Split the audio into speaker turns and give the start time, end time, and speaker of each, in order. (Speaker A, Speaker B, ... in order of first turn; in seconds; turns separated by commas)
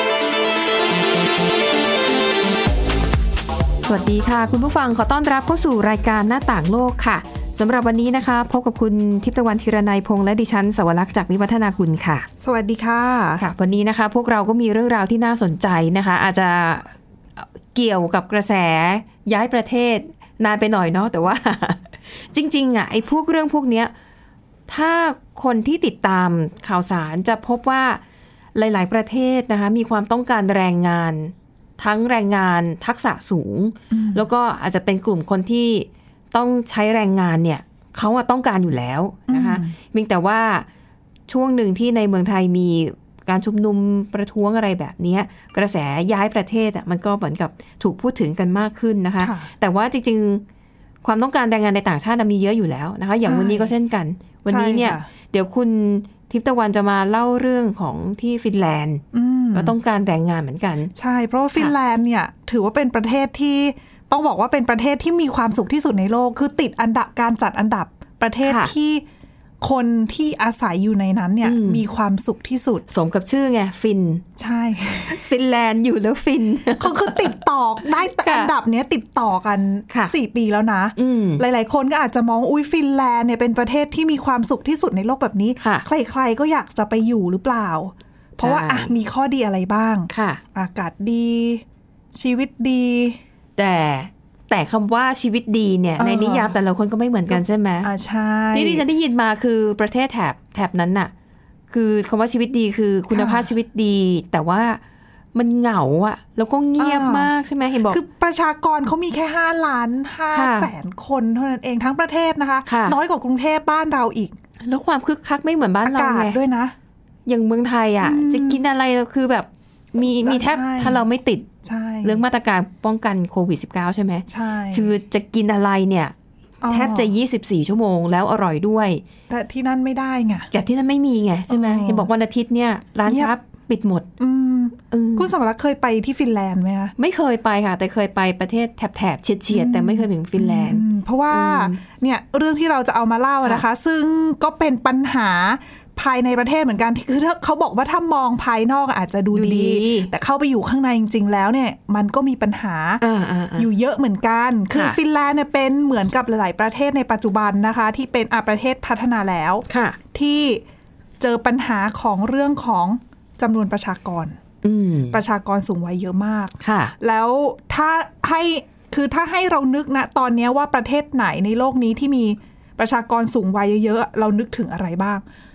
Speaker A: 3.8-12.3, Speaker B: 12.4-13.4, Speaker A: 13.4-23.9, Speaker A: 24.7-28.0, Speaker A: 28.5-40.7, Speaker B: 33.9-34.2, Speaker B: 39.3-39.7, Speaker A: 41.3-50.4, Speaker B: 49.2-49.5, Speaker A: 51.0-59.0, Speaker B: 53.2-53.7, Speaker B: 54.5-55.0, Speaker B: 59.1-59.7, Speaker A: 59.5-60.9, Speaker B: 61.0-69.0, Speaker A: 68.4-68.7, Speaker B: 69.6-72.8, Speaker A: 71.4-71.8, Speaker A: 72.9-74.2, Speaker B: 74.4-75.2, Speaker A: 75.1-77.3, Speaker B: 76.8-93.2, Speaker A: 78.0-78.5, Speaker A: 81.0-81.4, Speaker A: 85.6-85.9, Speaker A: 88.4-88.9, Speaker A: 90.1-90.4, Speaker A: 93.6-97.9, Speaker B: 96.0-96.5, Speaker B: 97.3-98.8, Speaker A: 98.5-101.1, Speaker A: 101.7-104.8, Speaker B: 103.1-103.5, Speaker A: 105.3-108.0, Speaker B: 106.8-107.3, Speaker B: 107.9-114.4, Speaker A: 110.3-110.7, Speaker A: 112.7-113.0, Speaker A: 114.6-116.3, Speaker B: 115.8-116.8, Speaker A: 117.2-121.5, Speaker B: 118.0-118.6, Speaker B: 120.2-121.0, Speaker B: 121.6-122.2, Speaker A: 122.0-126.1, Speaker B: 124.3-124.9, Speaker B: 126.6-127.1, Speaker A: 126.7-129.0, Speaker B: 129.3-130.5, Speaker A: 130.5-134.1, Speaker B: 131.5-132.1, Speaker B: 133.1-133.3, Speaker B: 134.2-136.9, Speaker A: 134.9-135.3, Speaker A: 137.0-141.8, Speaker B: 139.5-153.0, Speaker A: 149.3-150.1, Speaker A: 153.0-153.7, Speaker B: 153.6-160.6, Speaker A: 154.7-155.0, Speaker A: 159.7-160.0, Speaker B: 161.2-164.4, Speaker A: 164.6-165.2, Speaker B: 165.1-175.2, Speaker A: 166.6-166.9